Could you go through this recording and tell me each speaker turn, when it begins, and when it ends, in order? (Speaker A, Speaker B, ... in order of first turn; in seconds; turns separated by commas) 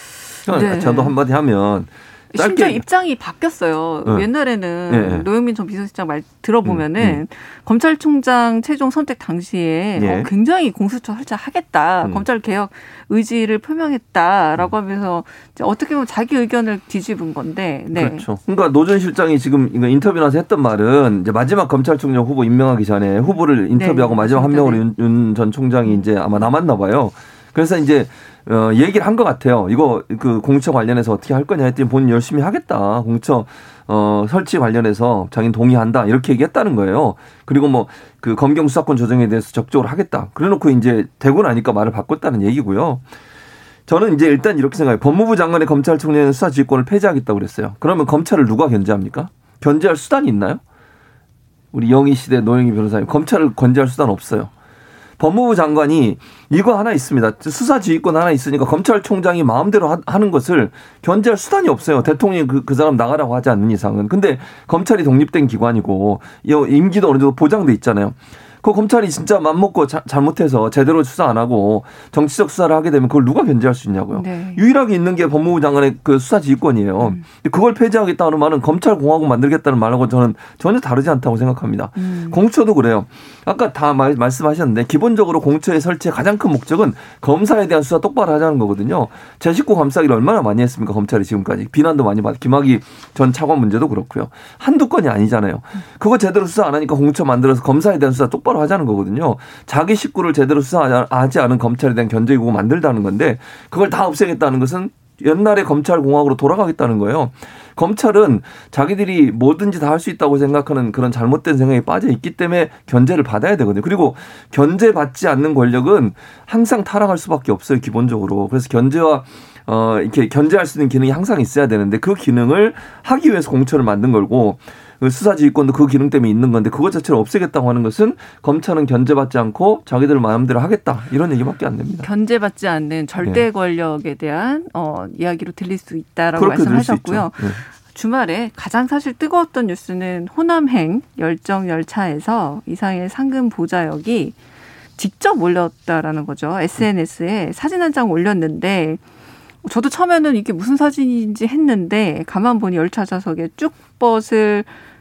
Speaker A: 0.5-2.8, Speaker B: 0.5-1.1, Speaker B: 2.3-18.2, Speaker A: 4.9-5.2, Speaker A: 6.6-7.2, Speaker A: 9.9-10.3, Speaker A: 17.9-43.0, Speaker B: 23.7-24.8, Speaker B: 25.8-26.5, Speaker A: 43.9-50.6, Speaker A: 51.7-54.5, Speaker A: 55.2-132.1, Speaker B: 74.1-74.6, Speaker B: 82.0-82.4, Speaker B: 132.0-144.3, Speaker A: 136.3-137.6, Speaker B: 145.0-149.0, Speaker B: 149.6-154.7